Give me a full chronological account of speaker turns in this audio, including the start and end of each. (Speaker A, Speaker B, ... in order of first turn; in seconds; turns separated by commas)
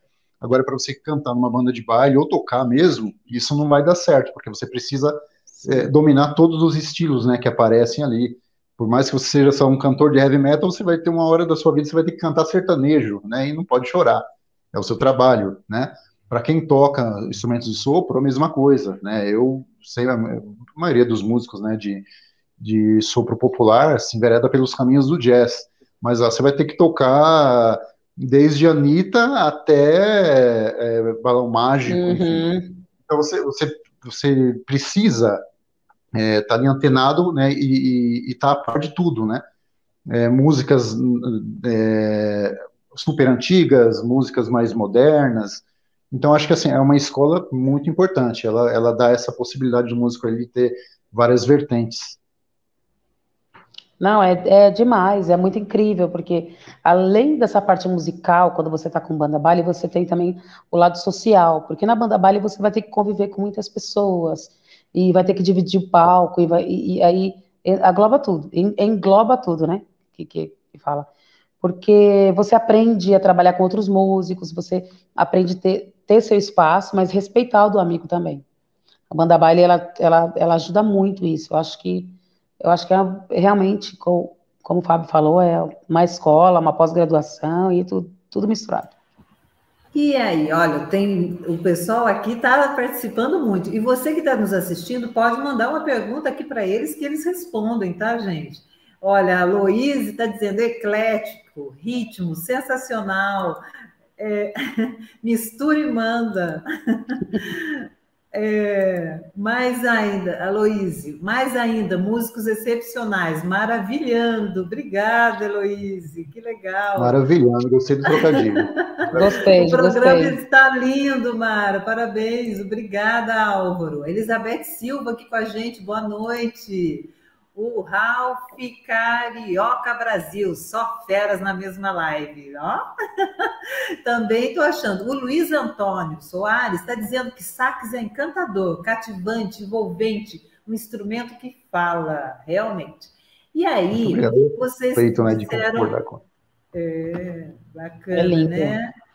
Speaker A: 0.4-22.1, Speaker A: 22.6-32.4, Speaker B: 31.9-32.8, Speaker A: 33.0-35.4, Speaker A: 36.1-39.4, Speaker A: 40.1-52.2, Speaker B: 54.0-71.1, Speaker B: 71.6-78.4, Speaker B: 79.1-88.9, Speaker C: 89.9-103.6, Speaker C: 104.2-117.2, Speaker A: 117.0-119.3, Speaker C: 118.1-145.9, Speaker B: 119.1-120.4, Speaker A: 143.9-146.2, Speaker C: 146.7-148.9, Speaker B: 148.1-148.8